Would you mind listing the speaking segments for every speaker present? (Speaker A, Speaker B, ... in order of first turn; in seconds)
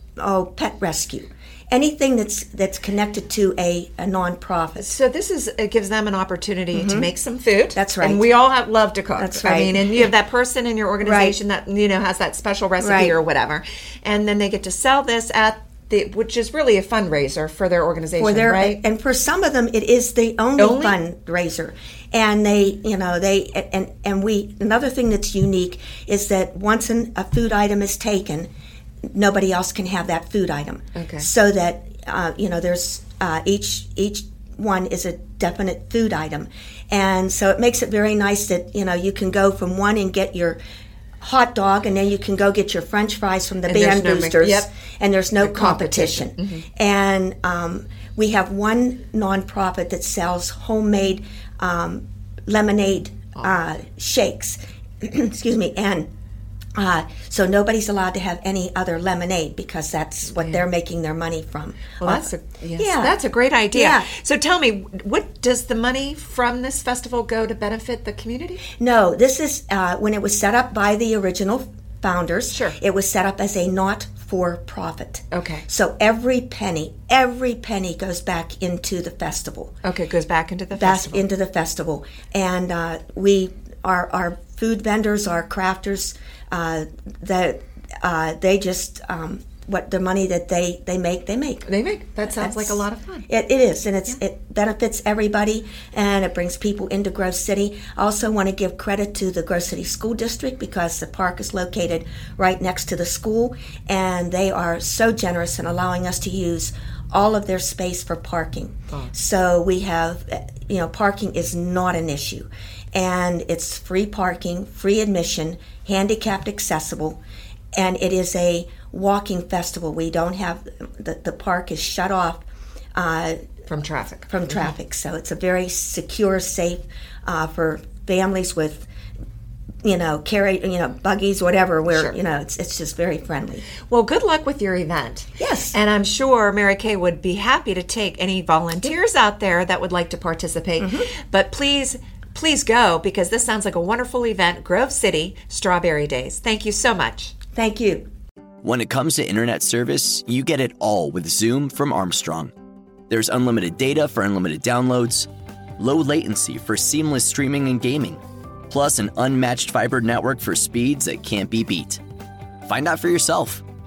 Speaker A: 0.2-5.0, 6.7-7.1, 7.7-8.2, 9.2-10.1, 11.0-11.4, 12.8-13.2, 18.2-28.5, 29.1-40.6, 41.2-56.1, 56.8-63.2, 63.7-64.1, 68.8-79.8, 80.7-91.7, 92.2-117.2, 117.7-122.4, 123.0-123.4, 124.3-128.9, 129.8-133.7, 135.4-135.8, 140.8-141.1, 147.6-148.1
Speaker B: 4.8-18.8, 20.6-21.0, 30.9-31.3, 43.7-44.7, 45.4-46.6, 60.3-60.6, 62.0-68.6, 72.5-72.8, 75.3-75.7, 79.8-81.3, 91.7-93.3, 123.7-124.8, 131.9-132.2, 133.8-147.3
Speaker C: 148.6-152.5, 153.1-162.0, 162.7-163.6